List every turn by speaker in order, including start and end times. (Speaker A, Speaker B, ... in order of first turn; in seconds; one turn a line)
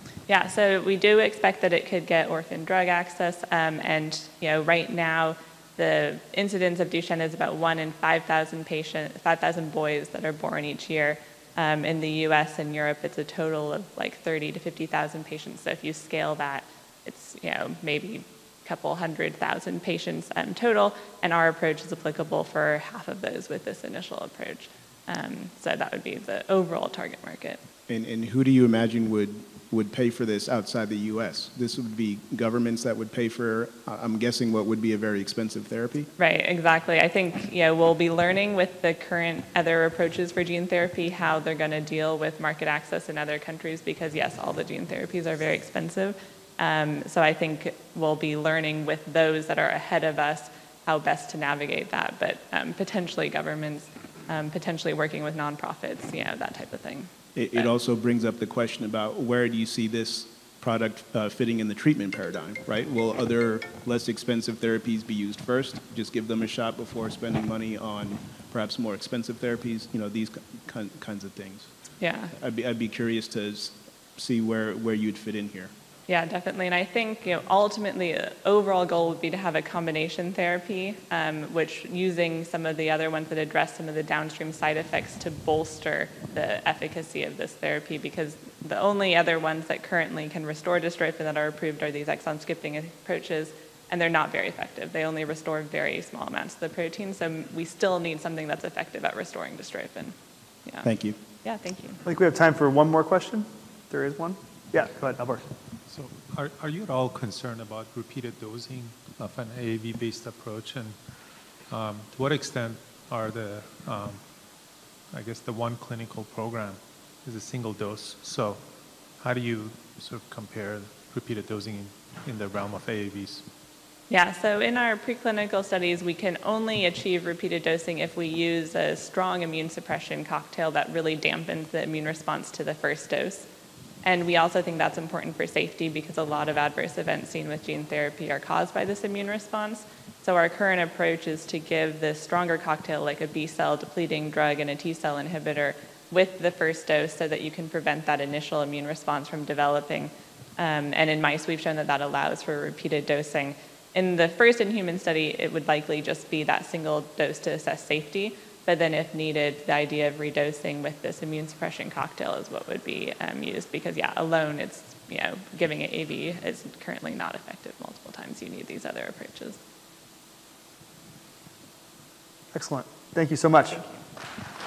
Speaker A: 0.3-27.6
Speaker B: 27.9-36.1
Speaker A: 36.2-57.7
Speaker B: 57.4-71.7
Speaker A: 72.0-72.3
Speaker B: 72.3-75.7
Speaker A: 76.1-100.9
Speaker B: 100.8-101.2
Speaker A: 101.4-102.0
Speaker C: 102.0-105.5
Speaker D: 105.9-111.0
Speaker D: 111.7-114.3
Speaker D: 115.1-118.6
Speaker D: 119.1-123.5
Speaker A: 124.1-133.5
Speaker A: 134.0-169.6
Speaker C: 172.5-173.9